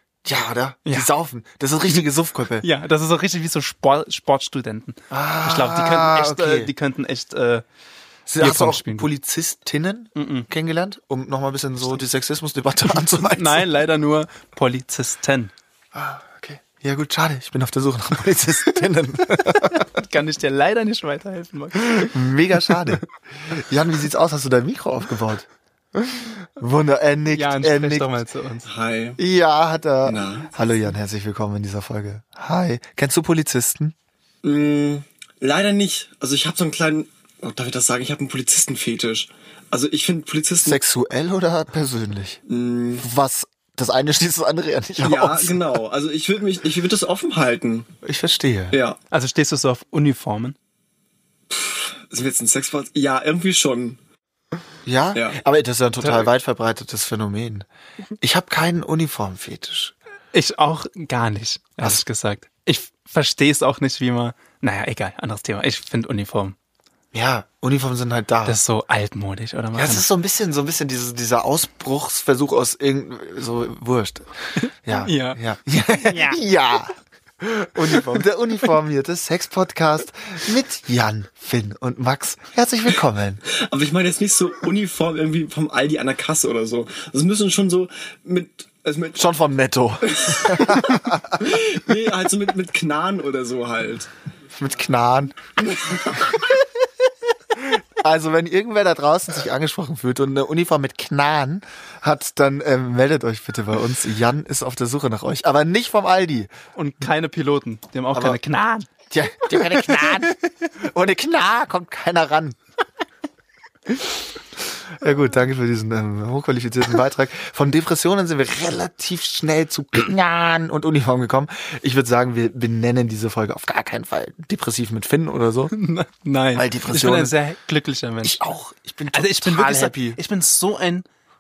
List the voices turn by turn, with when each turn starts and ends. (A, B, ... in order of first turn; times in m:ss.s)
0:00.2-0:02.7 A
0:02.6-0:07.6 B
0:05.1-0:06.7 A
0:08.3-0:13.7 A
0:08.4-0:09.1 B
0:10.2-0:10.5 B
0:12.9-0:15.5 B
0:15.9-0:20.0 A
0:19.9-0:22.1 B
0:21.8-0:28.2 A
0:27.3-0:28.7 B
0:28.7-0:29.2 C
0:29.2-0:34.0 A
0:30.0-0:30.5 C
0:34.4-0:40.8 C
0:40.6-0:42.4 A
0:42.5-0:43.0 C
0:43.0-0:45.8 A
0:45.0-0:47.9 C
0:48.0-0:48.8 A
0:48.7-0:49.0 C
0:49.1-0:50.6 B
0:51.5-0:54.0 C
0:54.8-0:57.7 A
0:55.1-0:55.4 C
0:58.2-0:59.9 A
1:00.3-1:06.6 B
1:07.1-1:08.6 A
1:08.4-1:10.1 B
1:09.7-1:14.3 A
1:14.6-1:15.4 B
1:14.8-1:23.4 A
1:15.9-1:16.4 B
1:23.5-1:29.3 C
1:29.2-1:31.5 A
1:30.0-1:34.1 C
1:34.5-1:35.4 A
1:35.7-1:36.3 C
1:36.0-1:36.2 A
1:37.6-1:46.5 A
1:46.8-1:48.9 B
1:48.1-1:48.4 A
1:49.1-1:52.6 A
1:49.5-1:50.4 B
1:53.9-1:54.2 A
1:54.9-2:05.7 A
2:05.7-2:08.4 B
2:06.6-2:07.4 A
2:08.2-2:10.2 A
2:09.1-2:11.1 B